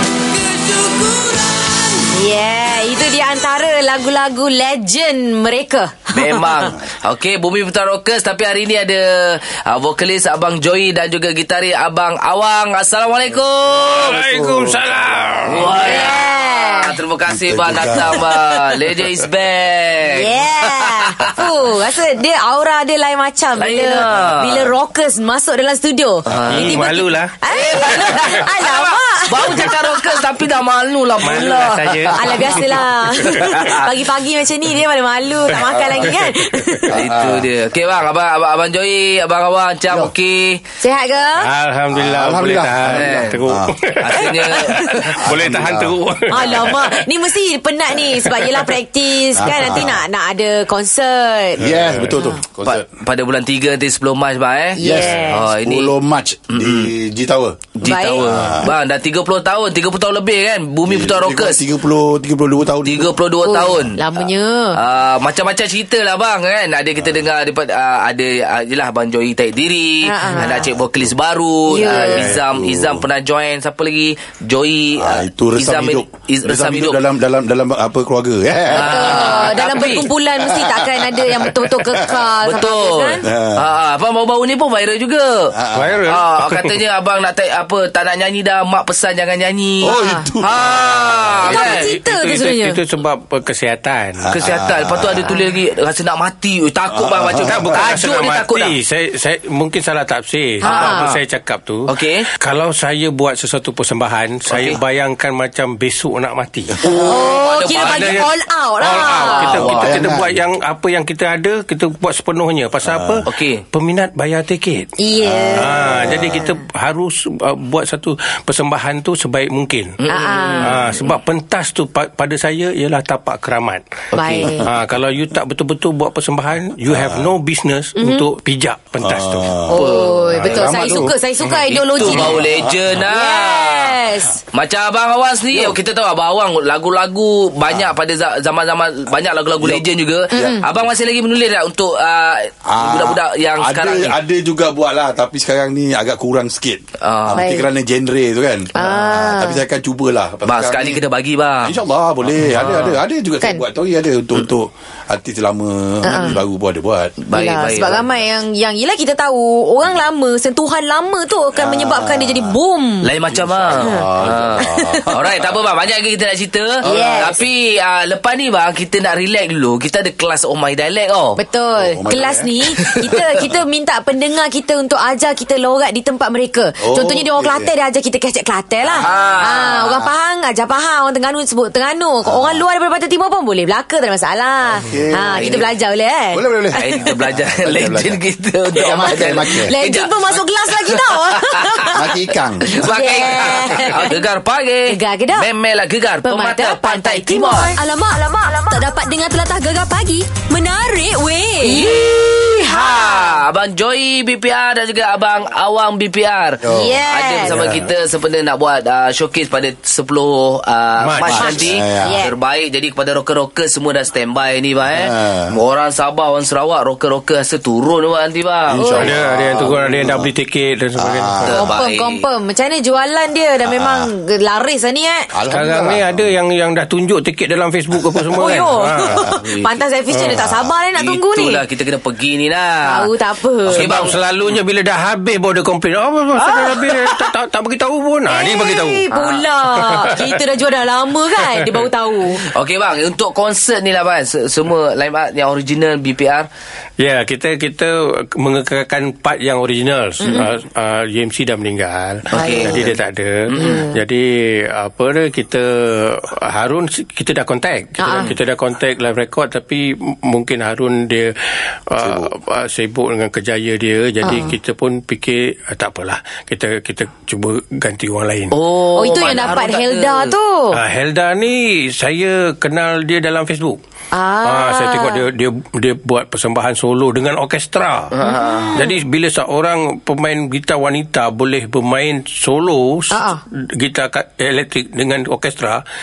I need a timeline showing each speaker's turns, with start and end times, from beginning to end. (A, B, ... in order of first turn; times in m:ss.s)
0:00.4-0:02.0 A
0:02.1-0:06.5 B
0:06.1-0:14.0 A
0:13.7-0:16.1 C
0:14.1-0:15.0 D
0:15.5-0:20.9 A
0:15.6-0:17.0 B
0:17.3-0:18.3 D
0:20.0-0:30.3 B
0:23.6-0:24.7 A
0:26.3-0:26.8 A
0:26.5-0:28.3 C
0:27.5-0:32.6 A
0:31.2-0:33.6 C
0:32.1-0:37.1 B
0:33.3-0:33.7 A
0:35.6-0:36.6 C
0:36.9-0:37.5 D
0:36.9-0:40.6 A
0:40.8-0:41.5 B
0:41.4-0:47.0 C
0:41.9-0:43.8 D
0:42.9-0:43.4 A
0:44.0-0:45.2 A
0:44.5-0:44.8 B
0:45.2-0:46.0 D
0:46.3-0:52.4 B
0:48.1-0:48.7 C
0:49.4-0:50.0 D
0:51.6-0:52.8 D
0:51.8-0:52.1 C
0:52.6-0:56.0 A
0:54.8-0:55.5 B
0:54.8-0:57.7 D
0:56.5-0:56.9 A
0:57.8-1:01.6 A
0:57.8-0:58.7 B
0:58.2-0:58.7 D
1:00.8-1:03.2 D
1:02.8-1:17.1 A
1:03.4-1:04.8 B
1:07.0-1:07.3 D
1:10.0-1:10.7 B
1:10.5-1:11.1 D
1:11.7-1:12.3 B
1:11.8-1:13.1 D
1:15.0-1:19.6 D
1:18.7-1:20.1 A
1:18.8-1:23.3 B
1:20.5-1:21.3 D
1:21.9-1:22.3 D
1:22.4-1:25.6 A
1:23.2-1:23.7 D
1:25.5-1:26.1 D
1:25.7-1:26.8 C
1:26.1-1:31.9 A
1:29.8-1:31.3 D
1:29.8-1:30.3 B
1:31.3-1:34.3 C
1:31.5-1:32.8 B
1:34.2-1:35.4 D
1:34.3-1:38.8 A
1:36.9-1:37.8 D
1:37.4-1:46.8 C
1:40.6-1:41.1 B
1:40.6-1:41.2 A
1:41.9-1:42.3 A
1:44.5-1:44.8 A
1:46.8-1:48.3 A
1:46.9-1:49.5 B
1:47.7-1:54.9 C
1:49.1-1:50.0 A
1:49.4-1:50.4 D
1:52.8-1:53.2 D
1:53.3-1:53.6 A
1:55.0-1:56.6 B
1:55.2-1:56.5 D
1:55.6-2:00.0 C
2:00.0-2:00.8 A
2:00.1-2:00.8 B
2:00.6-2:03.8 C
2:04.2-2:04.7 B
2:04.2-2:04.5 A
2:04.6-2:09.6 C
2:06.9-2:07.3 D
2:08.0-2:08.3 B
2:09.0-2:11.1 D
2:09.7-2:12.5 B
2:09.8-2:13.9 A
2:12.1-2:13.0 D
2:13.0-2:14.4 B
2:14.5-2:24.2 A
2:15.5-2:15.8 D
2:19.6-2:20.8 D
2:20.3-2:20.6 B
2:22.7-2:31.0 D
2:27.0-2:27.5 A
2:27.4-2:27.7 B
2:28.8-2:29.6 B
2:30.4-2:33.0 A
2:31.6-2:37.2 D
2:36.0-2:36.4 B
2:37.2-2:38.0 A
2:37.3-2:43.1 B
2:41.5-2:42.6 D
2:43.0-2:51.4 A
2:43.3-2:45.5 D
2:43.8-2:45.2 B
2:46.8-2:47.4 B
2:46.8-2:47.3 D
2:51.4-3:07.0 B
2:51.8-2:52.7 D
2:52.8-2:53.1 A
2:56.8-2:57.7 D
2:58.9-2:59.9 A
3:02.2-3:02.6 D
3:04.7-3:05.7 D
3:05.3-3:05.7 A
3:06.3-3:09.8 D
3:06.8-3:11.7 A
3:08.9-3:12.1 B
3:11.8-3:12.8 D
3:12.7-3:17.8 A
3:12.8-3:14.3 B
3:14.9-3:15.5 B
3:16.2-3:18.6 B
3:17.7-3:21.9 E
3:21.6-3:23.4 B
3:21.7-3:39.1 A
3:26.6-3:27.9 D
3:26.6-3:27.8 B
3:31.0-3:31.7 C
3:31.3-3:32.2 D
3:31.4-3:32.4 B
3:34.9-3:35.6 D
3:38.7-3:40.3 D
3:38.8-3:39.1 B
3:39.0-3:41.6 C
3:41.0-3:41.7 D
3:41.4-3:42.2 A
3:41.5-3:45.3 B
3:43.6-3:44.1 D
3:45.3-3:46.4 D
3:45.5-3:49.2 C
3:48.0-3:48.4 D
3:48.4-3:51.6 B
3:49.2-3:49.8 A
3:50.2-3:50.4 C
3:50.3-3:50.8 D
3:51.0-3:53.0 A
3:52.8-3:54.2 B
3:53.7-3:54.5 A
3:53.7-3:59.1 C
3:58.3-4:02.5 B
3:59.1-3:59.4 A
3:59.8-4:00.4 C
4:01.4-4:01.9 C
4:02.5-4:06.5 A
4:07.0-4:21.4 C
4:10.2-4:10.5 B
4:12.3-4:12.9 A
4:12.3-4:12.8 B
4:13.5-4:13.8 A
4:13.6-4:13.9 B
4:18.0-4:18.3 B
4:21.9-4:28.6 C
4:22.0-4:22.3 D
4:24.2-4:24.5 B
4:28.5-4:30.3 A
4:28.9-4:30.8 B
4:29.2-4:29.5 C
4:30.7-4:33.8 C
4:34.1-4:35.2 B
4:34.4-4:38.1 C
4:38.1-4:38.8 A
4:38.2-4:38.9 B
4:38.7-4:45.8 C
4:43.1-4:43.4 B